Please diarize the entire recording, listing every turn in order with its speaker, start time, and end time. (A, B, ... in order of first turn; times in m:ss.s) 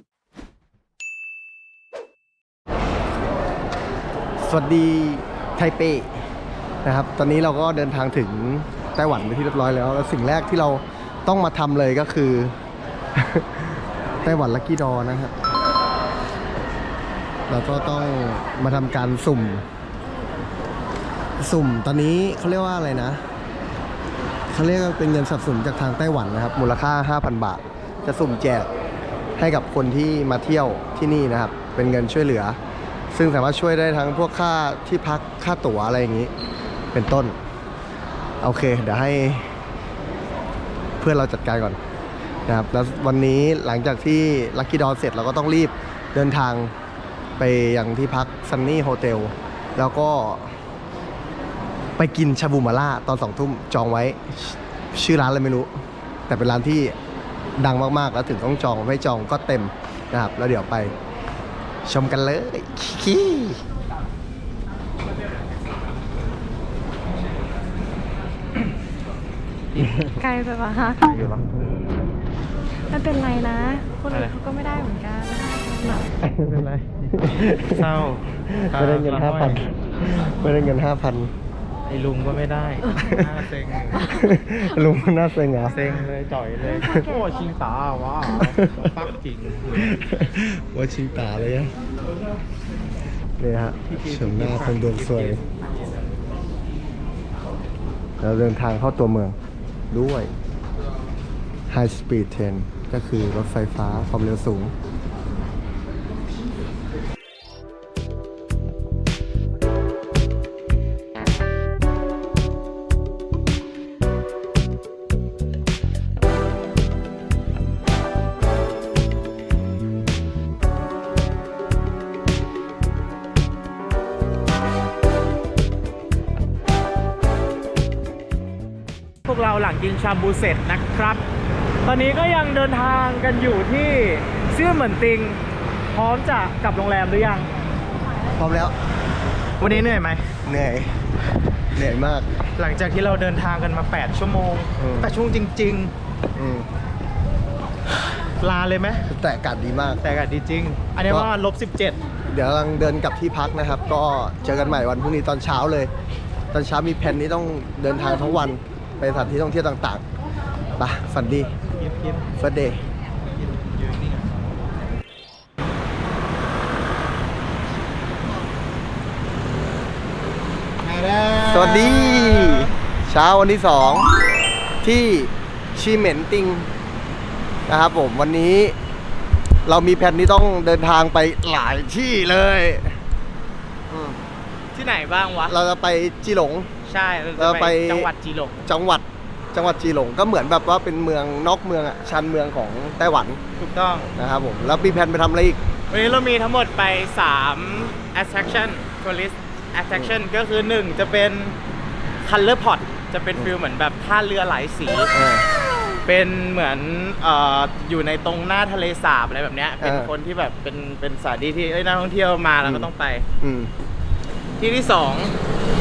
0:04.4-0:06.1 A
0:06.8-0:12.6 A
0:13.2-0:15.3 A
0:17.5-0:19.7 A
0:21.4-0:23.2 A
0:24.5-0:28.7 A
0:29.4-0:32.6 A
0:33.1-0:36.3 A
0:36.9-0:37.4 A
0:38.4-0:39.5 A
0:41.0-0:41.8 A
0:42.5-0:46.7 A
0:47.4-0:50.6 A
0:52.0-0:55.7 A
0:56.3-0:57.0 A
0:57.6-1:01.0 A
1:01.8-1:03.6 A
1:09.8-1:11.2 B
1:11.0-1:11.5 C
1:12.9-1:16.1 B
1:16.2-1:17.9 A
1:17.4-1:20.2 C
1:18.5-1:21.3 A
1:21.9-1:24.1 C
1:23.0-1:23.3 A
1:24.0-1:25.8 A
1:25.7-1:30.0 C
1:26.6-1:27.4 B
1:28.3-1:29.0 A
1:29.7-1:31.7 A
1:33.4-1:35.4 A
1:33.8-1:35.7 C
1:38.2-1:39.4 A
1:39.9-1:40.3 A
1:41.7-1:44.7 A
2:09.2-2:11.2 C
2:11.8-2:15.4 C
2:15.9-2:17.5 C
2:18.4-2:18.8 A
2:19.6-2:20.3 C
2:20.4-2:21.0 A
2:21.7-2:22.3 A
2:22.6-2:25.9 C
2:24.8-2:25.2 A
2:26.4-2:26.7 A
2:28.2-2:29.1 C
2:29.1-2:30.0 A
2:30.0-2:32.0 C
2:32.3-2:35.9 A
2:36.5-2:40.0 A
2:40.8-2:41.6 A
2:41.7-2:42.2 C
2:42.4-2:42.8 A
2:43.2-2:44.4 C
2:50.8-2:52.7 C
2:51.5-2:54.1 A
2:54.8-2:56.7 A
2:57.7-2:58.8 A
2:59.6-3:03.0 A
3:03.9-3:04.2 A
3:04.7-3:05.6 C
3:05.5-3:06.7 A
3:06.8-3:08.6 C
3:07.4-3:08.1 A
3:08.6-3:13.4 A
3:13.6-3:14.1 C
3:14.2-3:15.6 A
3:15.9-3:21.6 C
3:22.2-3:25.1 C
3:25.1-3:25.4 A
3:26.0-3:33.3 C
3:29.8-3:30.1 A
3:32.6-3:33.7 A
3:34.6-3:35.4 C